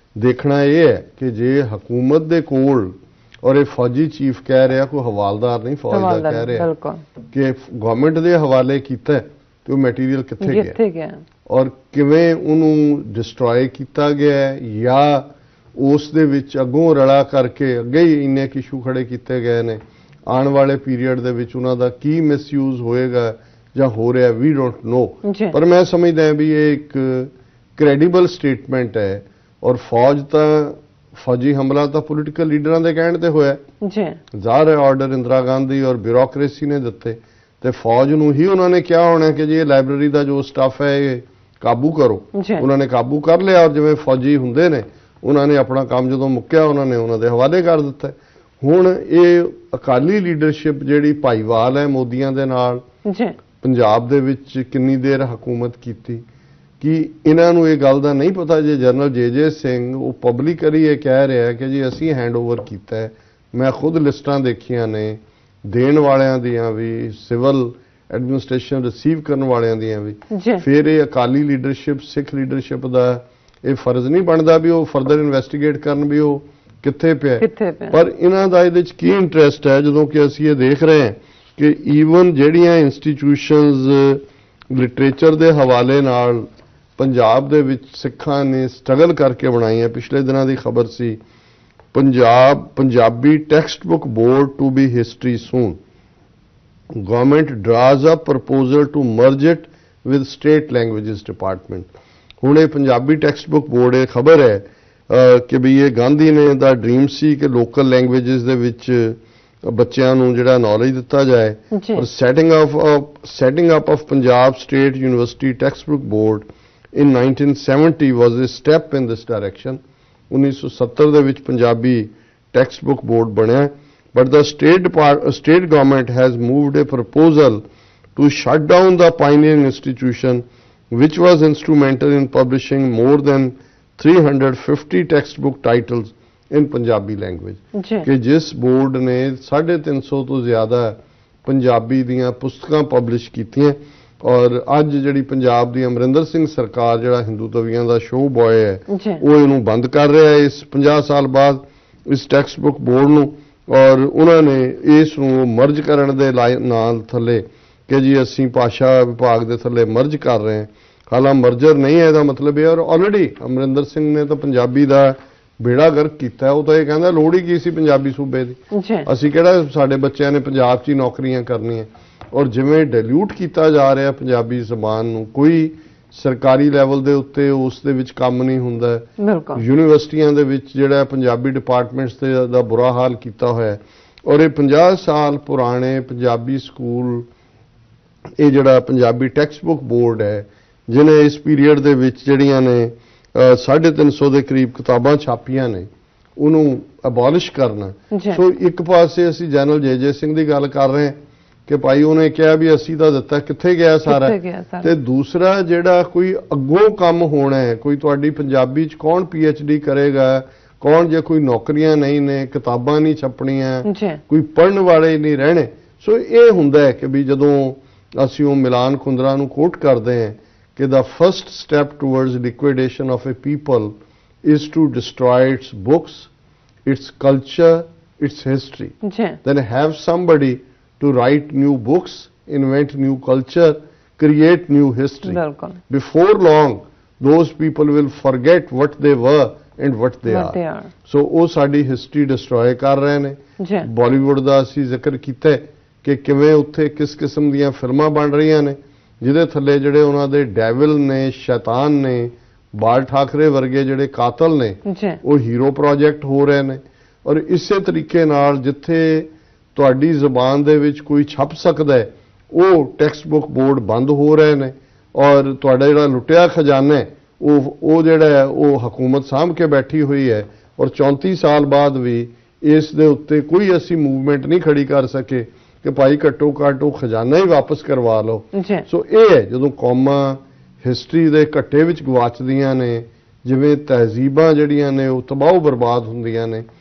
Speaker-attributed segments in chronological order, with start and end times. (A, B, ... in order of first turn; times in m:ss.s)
0:00.2-0:06.7 A
0:05.9-0:07.0 B
0:07.3-0:10.8 A
0:10.4-0:11.2 B
0:11.5-0:33.6 A
0:25.2-0:25.6 B
0:33.8-0:34.2 B
0:34.3-0:52.8 A
0:42.3-0:42.6 B
0:53.0-0:53.4 B
0:53.6-0:56.2 A
0:56.8-1:31.2 A
1:10.3-1:10.6 B
1:17.4-1:18.0 B
1:31.9-1:35.8 A
1:36.9-1:41.9 A
1:42.4-2:07.6 A
1:51.7-1:52.0 B
2:08.2-3:07.3 A
2:17.7-2:18.0 B
2:28.9-2:29.2 B
2:48.7-2:49.1 B
2:59.2-2:59.6 B
3:08.4-3:46.3 A
3:18.1-3:18.4 B
3:24.0-3:24.9 B
3:33.8-3:34.2 B
3:46.8-4:46.6 A
3:49.0-3:49.4 B
3:55.2-3:55.8 B
4:00.2-4:00.9 B
4:03.6-4:03.9 B
4:14.8-4:15.2 B
4:38.5-4:38.8 B